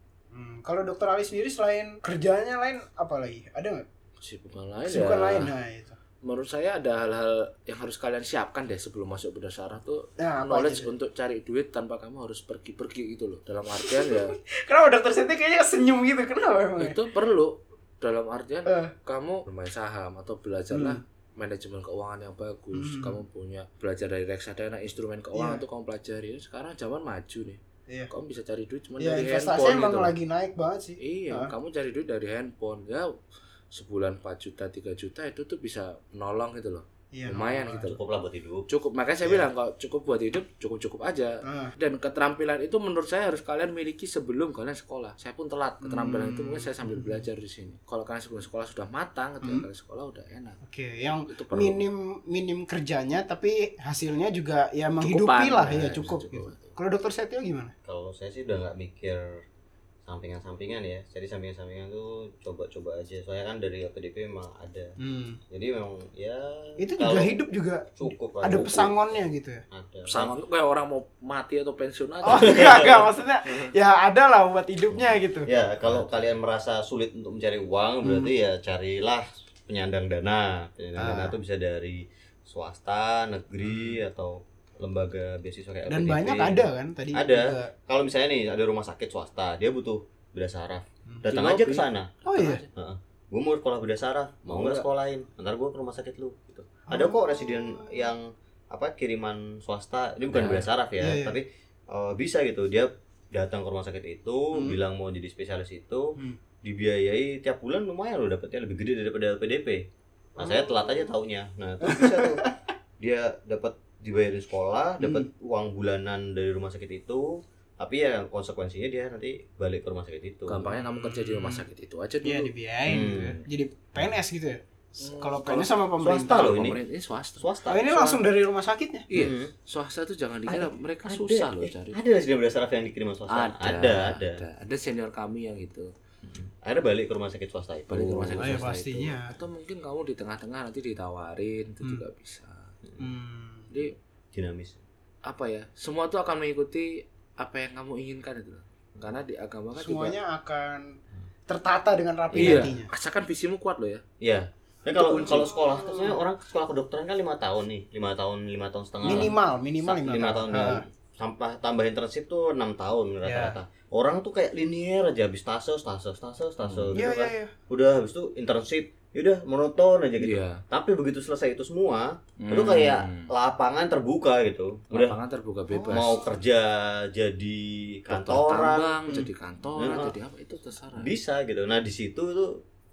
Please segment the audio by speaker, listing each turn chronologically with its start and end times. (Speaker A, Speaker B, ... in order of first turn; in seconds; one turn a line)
Speaker A: 0.3-3.9
Speaker B: 4.2-5.5
Speaker A: 4.9-6.0
Speaker B: 6.2-14.3
Speaker A: 10.2-10.9
Speaker A: 13.8-17.0
Speaker B: 16.8-30.1
Speaker A: 18.6-18.9
Speaker A: 20.7-21.0
Speaker A: 22.7-23.2
Speaker A: 25.3-25.6
Speaker A: 29.0-31.5
Speaker B: 31.0-33.2
Speaker B: 33.7-38.0
Speaker A: 37.1-37.9
Speaker C: 37.9-38.7
Speaker B: 38.7-50.6
Speaker A: 41.4-41.7
Speaker A: 45.8-47.2
Speaker A: 50.6-57.7
Speaker B: 51.3-51.8
Speaker B: 55.0-56.7
Speaker C: 57.8-59.4
Speaker C: 60.0-64.9
Speaker A: 65.0-65.4
Speaker C: 65.5-67.4
Speaker A: 66.8-69.6
Speaker C: 68.0-69.2
Speaker C: 69.7-70.3
Speaker B: 70.1-72.9
Speaker A: 72.2-75.5
Speaker C: 72.3-73.1
Speaker C: 74.9-92.1
Speaker B: 75.8-76.3
Speaker A: 78.0-78.3
Speaker A: 81.0-81.3
Speaker A: 85.9-87.7
Speaker B: 91.3-92.7
Speaker A: 92.2-92.6
Speaker C: 92.7-109.8
Speaker A: 94.5-94.8
Speaker A: 96.9-98.1
Speaker B: 100.3-100.6
Speaker A: 100.4-101.4
Speaker A: 110.4-110.9
Speaker C: 110.4-120.7
Speaker A: 111.8-112.5
Speaker A: 115.0-115.3
Speaker B: 120.5-122.5
Speaker A: 120.7-121.7
Speaker A: 122.2-126.7
Speaker C: 122.8-123.4
Speaker B: 125.0-127.5
Speaker C: 126.1-126.8
Speaker C: 127.4-128.2
Speaker A: 127.7-129.1
Speaker B: 129.1-132.0
Speaker C: 129.1-129.5
Speaker C: 130.5-134.4
Speaker B: 133.3-135.9
Speaker C: 136.2-138.7
Speaker B: 137.9-142.7
Speaker A: 138.4-139.3
Speaker A: 143.0-143.7
Speaker C: 144.3-144.8
Speaker B: 145.2-150.2
Speaker A: 149.7-150.9
Speaker A: 151.5-152.9
Speaker B: 152.3-154.0
Speaker C: 152.4-152.7
Speaker C: 154.2-175.2
Speaker A: 155.0-156.2
Speaker B: 155.2-155.5
Speaker A: 159.0-160.8
Speaker A: 163.2-163.6
Speaker B: 166.6-166.9
Speaker A: 166.9-167.5
Speaker B: 170.2-170.6
Speaker B: 172.4-173.3
Speaker B: 174.9-176.2
Speaker A: 175.7-176.2
Speaker C: 175.9-179.2
Speaker B: 178.1-181.1
Speaker C: 179.8-180.1
Speaker C: 180.9-182.6